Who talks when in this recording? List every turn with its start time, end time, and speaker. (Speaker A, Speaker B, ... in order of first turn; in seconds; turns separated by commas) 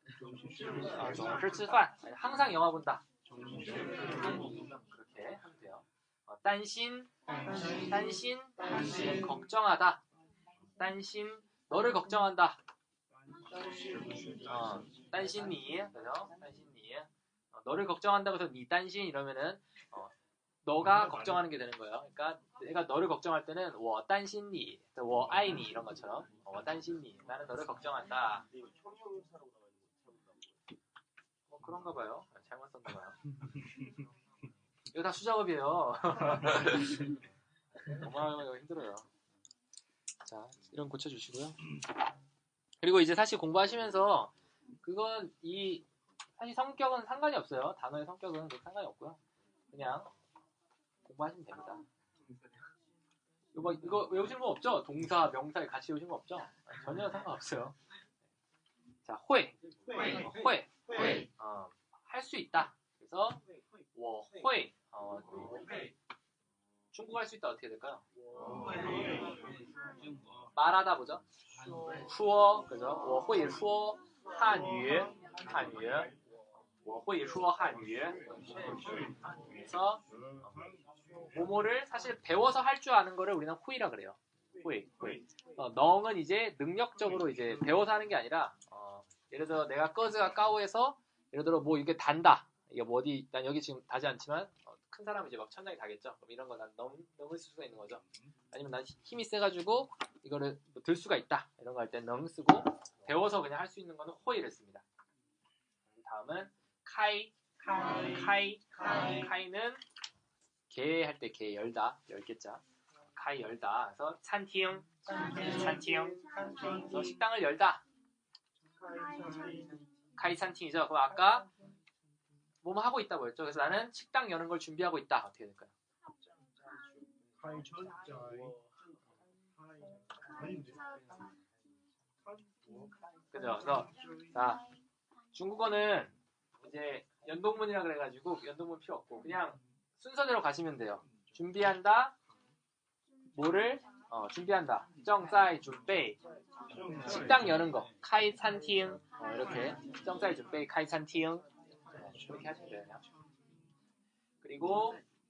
Speaker A: 0.7-3.0, Speaker A: 3.7-10.0, Speaker A: 10.8-12.6, Speaker A: 14.4-20.1, Speaker A: 20.6-28.5, Speaker A: 31.5-33.2, Speaker A: 34.9-37.1, Speaker A: 37.9-39.1, Speaker A: 40.2-41.6, Speaker A: 42.8-45.9, Speaker A: 46.4-49.2, Speaker A: 49.7-50.1, Speaker A: 51.0-51.8, Speaker A: 53.5-57.8, Speaker A: 59.0-65.7, Speaker A: 66.9-68.0, Speaker A: 70.5-71.2, Speaker A: 72.0-76.1, Speaker A: 76.8-78.7, Speaker A: 79.5-80.6, Speaker A: 81.3-104.8, Speaker A: 105.9-109.8, Speaker A: 110.7-117.8, Speaker A: 120.2-121.5, Speaker A: 122.6-125.7, Speaker A: 133.3-134.6, Speaker A: 135.3-142.1, Speaker A: 143.3-146.2, Speaker A: 146.8-153.0, Speaker A: 154.4-155.0